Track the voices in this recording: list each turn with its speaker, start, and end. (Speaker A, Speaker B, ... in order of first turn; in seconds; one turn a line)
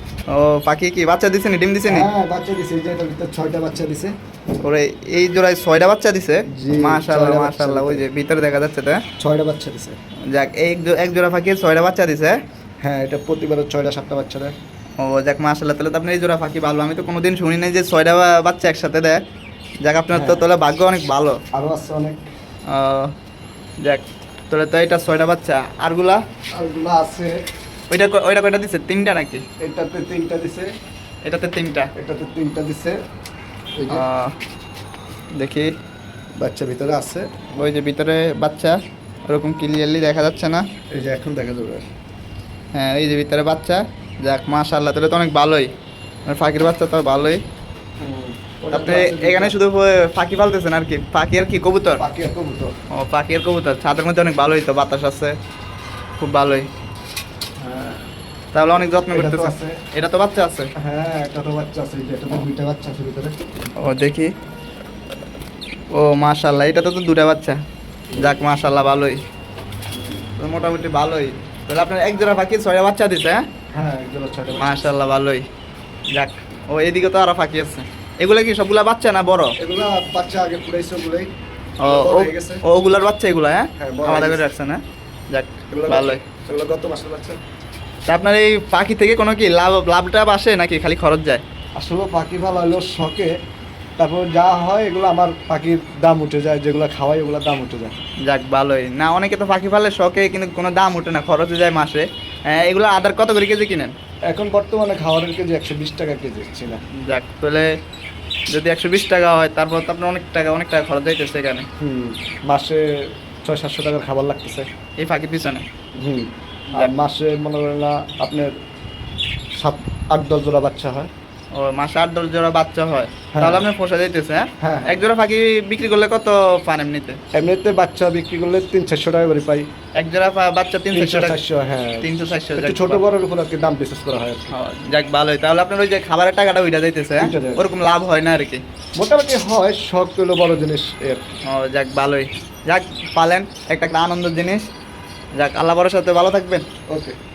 Speaker A: 0.3-2.1
Speaker B: 1.9-4.1
Speaker A: 4.6-9.0
Speaker B: 6.5-8.1
Speaker B: 9.2-10.0
Speaker A: 10.3-12.3
Speaker B: 12.8-14.5
Speaker A: 15.0-19.2
Speaker A: 19.8-21.4
Speaker B: 20.1-20.4
Speaker B: 21.5-22.2
Speaker A: 22.7-23.1
Speaker A: 23.8-26.2
Speaker B: 26.6-27.4
Speaker A: 27.9-29.4
Speaker B: 29.6-30.7
Speaker A: 31.3-31.9
Speaker B: 31.9-33.0
Speaker B: 33.8-34.0
Speaker A: 33.9-34.3
Speaker A: 35.4-35.7
Speaker B: 36.4-37.5
Speaker A: 37.6-38.8
Speaker A: 39.3-40.7
Speaker B: 40.9-41.9
Speaker A: 42.7-45.7
Speaker A: 46.3-47.4
Speaker B: 48.0-49.5
Speaker A: 48.7-52.0
Speaker B: 52.0-52.7
Speaker A: 52.9-55.3
Speaker A: 56.2-56.7
Speaker B: 57.6-58.0
Speaker A: 58.5-60.7
Speaker B: 59.0-59.8
Speaker B: 60.8-63.4
Speaker A: 63.8-64.3
Speaker A: 65.9-67.6
Speaker A: 68.1-69.2
Speaker A: 70.4-73.4
Speaker B: 73.7-74.8
Speaker A: 74.6-75.5
Speaker A: 76.1-79.5
Speaker B: 79.6-81.3
Speaker A: 81.8-84.8
Speaker B: 81.8-82.6
Speaker B: 83.8-84.4
Speaker A: 85.3-86.2
Speaker B: 85.7-87.4
Speaker A: 88.1-91.4
Speaker B: 91.8-93.3
Speaker B: 94.0-98.0
Speaker A: 98.2-103.9
Speaker B: 104.3-106.8
Speaker A: 107.0-107.7
Speaker A: 108.5-111.7
Speaker B: 111.8-112.9
Speaker B: 113.5-114.7
Speaker A: 115.0-115.6
Speaker B: 116.0-118.5
Speaker B: 119.6-121.1
Speaker A: 121.5-127.2
Speaker B: 123.3-123.6
Speaker B: 124.6-125.0
Speaker B: 127.3-129.7
Speaker A: 130.0-131.4
Speaker B: 130.9-134.5
Speaker A: 132.0-133.0
Speaker A: 134.5-138.6
Speaker B: 137.2-137.7
Speaker B: 139.0-141.2
Speaker A: 141.5-144.6
Speaker A: 145.4-146.6
Speaker B: 146.9-147.1